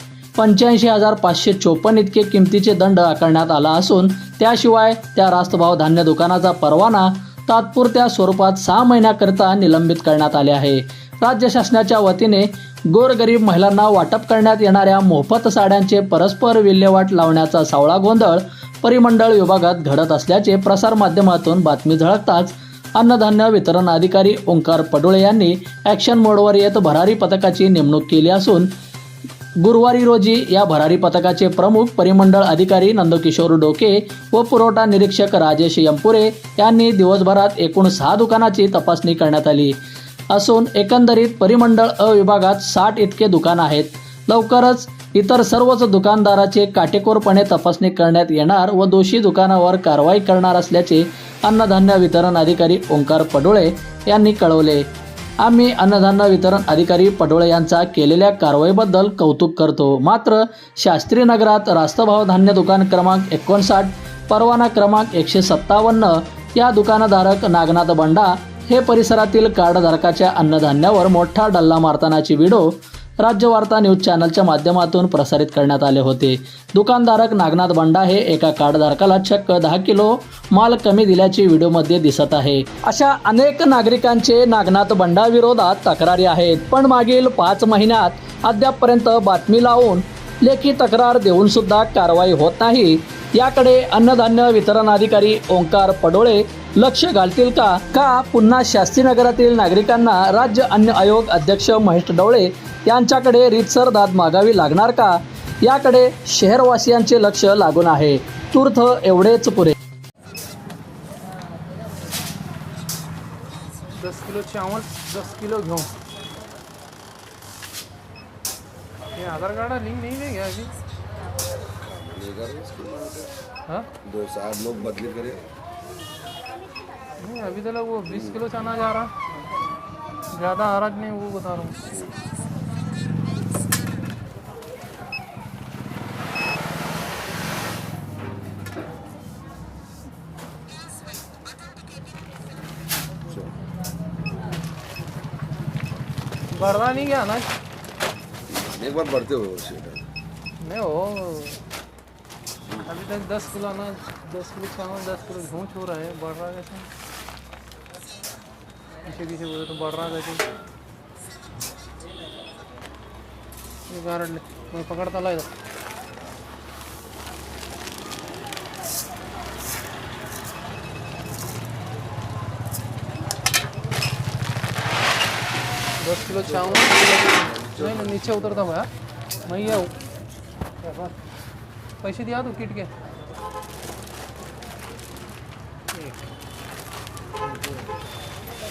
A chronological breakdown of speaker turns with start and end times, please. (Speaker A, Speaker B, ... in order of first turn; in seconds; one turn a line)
Speaker A: 0.4-28.7
Speaker A: 29.6-39.8
Speaker A: 40.3-54.9
Speaker A: 55.4-109.8
Speaker B: 114.0-115.9
Speaker B: 119.1-120.7
Speaker C: 121.8-123.3
Speaker C: 124.0-125.5
Speaker B: 127.2-129.1
Speaker B: 130.3-131.8
Speaker B: 146.5-147.5
Speaker C: 148.5-150.0
Speaker B: 150.6-151.6
Speaker B: 152.8-156.9
Speaker B: 159.0-160.5
Speaker B: 163.9-165.5
Speaker B: 176.0-178.9
Speaker C: 177.5-178.0
Speaker B: 179.4-179.9
Speaker B: 180.8-181.1
Speaker B: 182.0-182.9